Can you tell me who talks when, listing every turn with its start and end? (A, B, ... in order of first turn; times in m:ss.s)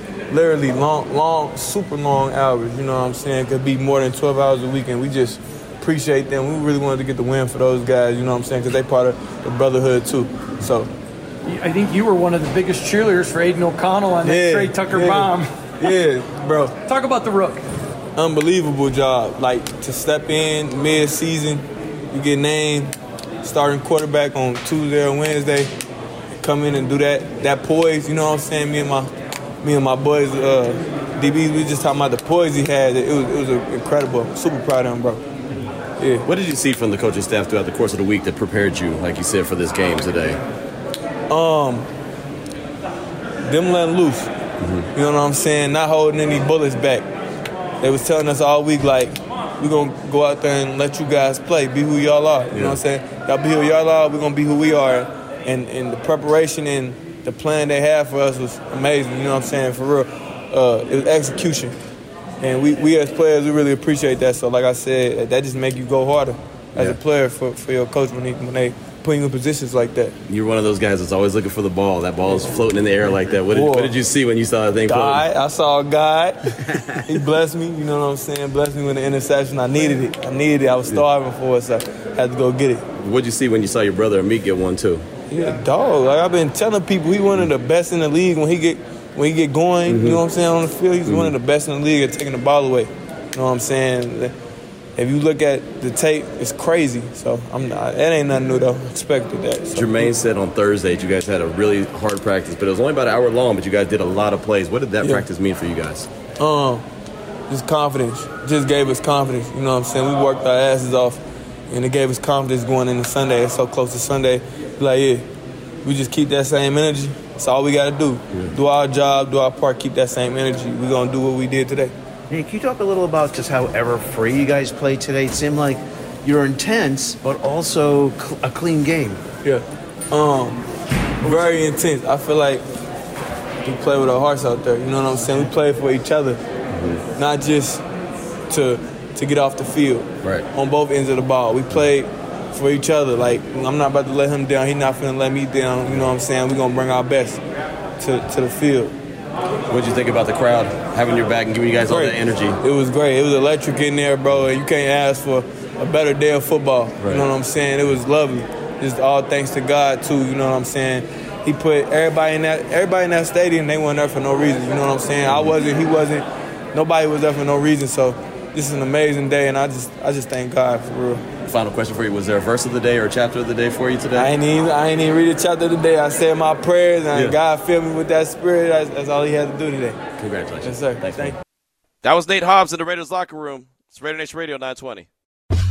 0:00.3-0:10.9 A
0:11.4-0:15.9 B
0:14.2-0:16.7 A
0:16.8-0:17.6 B
0:18.2-0:22.9 A
0:23.4-0:25.7 A
0:26.4-0:29.1 A
0:29.6-0:35.2 A
0:36.0-0:36.3 A
0:36.2-0:40.4 C
0:41.3-0:41.9 A
0:43.4-0:44.3 A
0:44.6-0:44.9 C
0:44.9-0:47.0 A
0:47.8-1:01.8 A
0:52.5-0:52.8 C
1:02.4-1:10.2 A
1:10.2-1:15.2 C
1:13.5-1:14.0 A
1:14.8-1:22.8 A
1:16.7-1:17.0 C
1:22.9-1:25.0 C
1:25.3-1:34.3 A
1:29.9-1:30.2 C
1:31.0-1:31.3 C
1:35.0-1:40.1 A
1:39.7-1:46.1 C
1:45.0-1:45.3 A
1:46.4-1:46.8 A
1:47.5-1:55.2 A
1:55.8-2:01.9 A
2:02.3-2:09.2 D
2:09.4-2:10.7 A
2:11.2-2:12.6 A
2:13.6-2:16.4 A
2:16.7-2:17.0 C
2:17.1-2:17.8 A
2:18.5-2:27.4 A
2:28.0-2:28.9 A
2:29.7-2:32.6 C
2:31.8-2:51.2 A
2:37.0-2:37.2 C
2:51.4-2:54.3 C
2:54.1-3:00.0 A
3:00.2-3:01.4 C
3:00.6-3:01.4 A
3:02.0-3:05.1 E